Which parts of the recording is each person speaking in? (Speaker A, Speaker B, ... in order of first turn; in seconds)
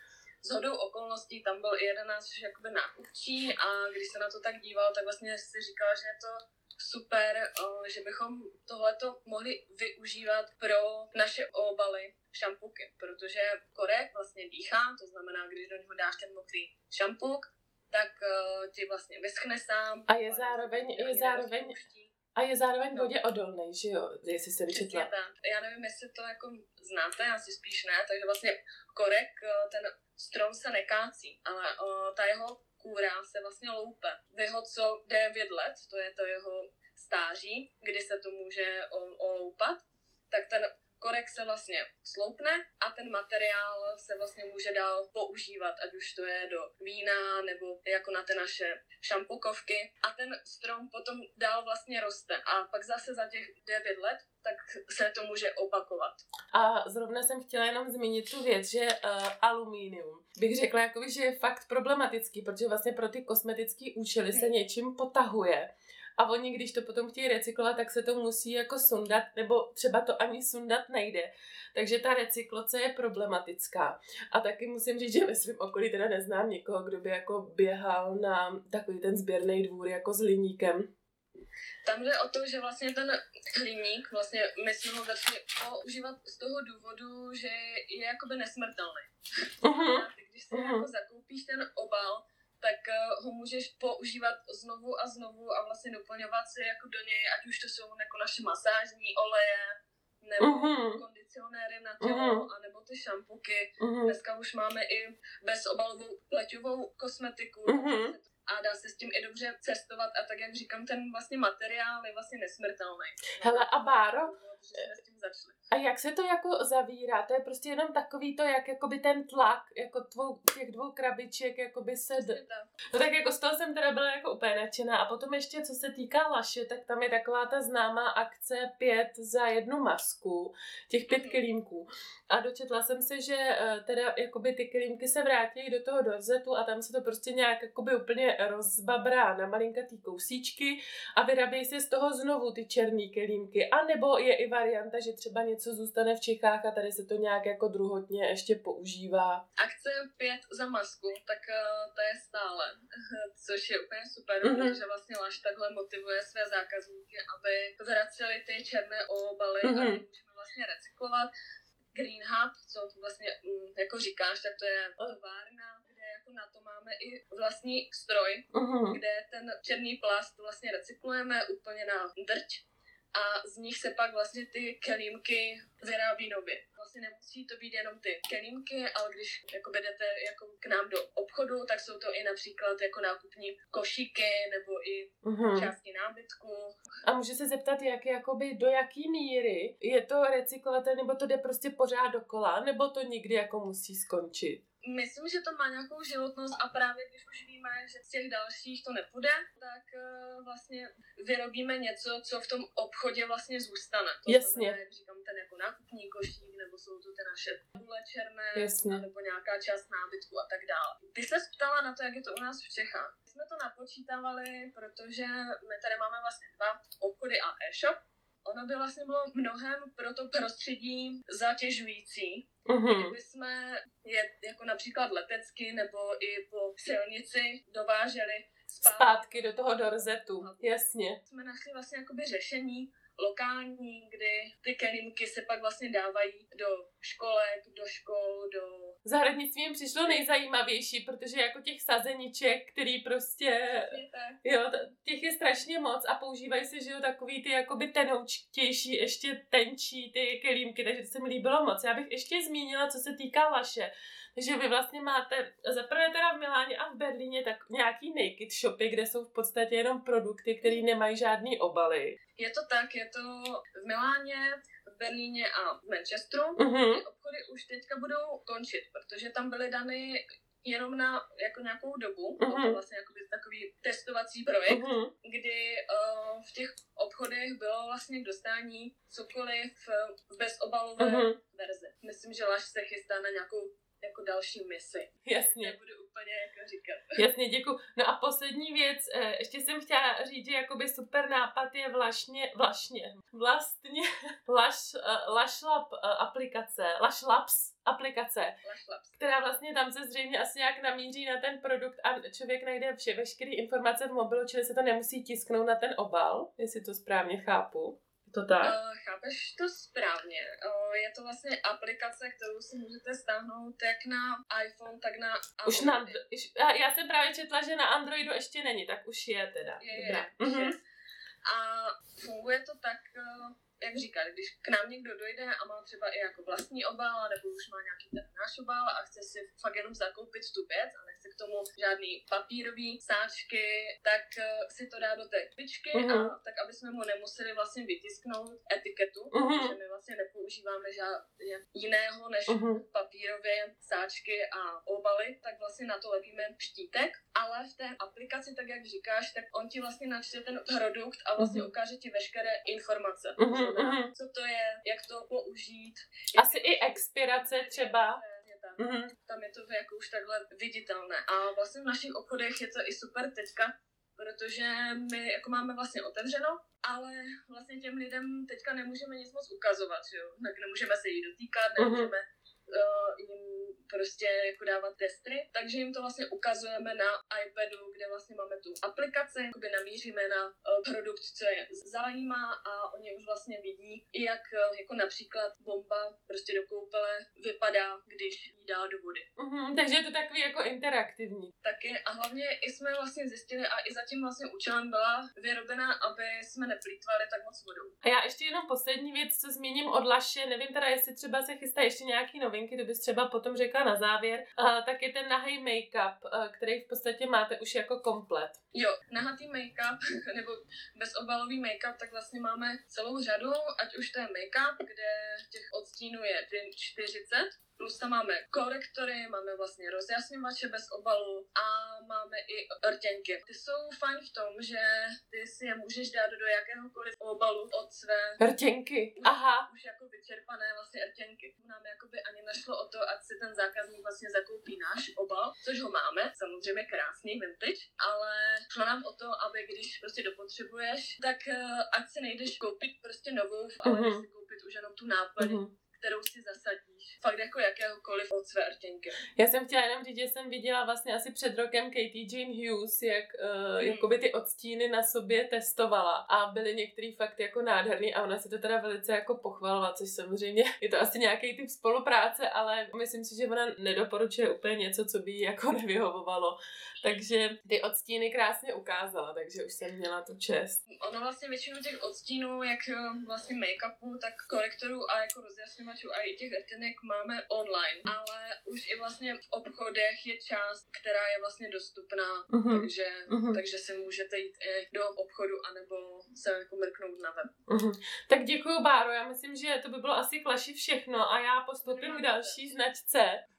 Speaker A: 0.4-22.1, 24.7-56.2, 81.8-89.1, 89.6-115.6, 122.2-122.7, 131.1-131.4, 149.6-161.3, 161.9-172.6, 173.1-186.8, 194.8-238.9, 243.7-244.4, 262.4-287.2, 298.6-299.1, 308.6-316.2, 319.8-320.8, 321.4-389.3, 391.6-397.9, 408.7-428.4, 429.2-449.2, 453.8-454.1, 470.9-487.5, 491.8-492.6
Speaker B: 20.1-21.8, 22.3-25.1, 56.5-80.9, 89.6-90.8, 100.4-101.0, 102.0-102.4, 103.8-104.1, 107.7-108.1, 113.4-114.3, 115.7-122.4, 122.9-149.4, 154.4-154.8, 159.6-160.0, 168.5-169.0, 185.2-185.7, 187.0-194.6, 204.3-204.7, 208.6-209.0, 222.7-223.1, 228.8-231.2, 239.0-262.2, 266.6-267.0, 272.4-272.8, 274.7-275.1, 281.0-281.4, 285.2-285.7, 287.1-298.6, 299.2-308.7, 315.6-320.8, 335.9-336.3, 339.3-339.7, 342.5-342.8, 351.4-351.7, 353.4-354.1, 356.4-358.2, 358.8-359.1, 371.8-372.1, 389.4-391.5, 398.0-408.6, 428.4-429.7, 443.8-444.2, 445.4-445.7, 449.3-470.8, 482.5-483.6, 487.7-493.4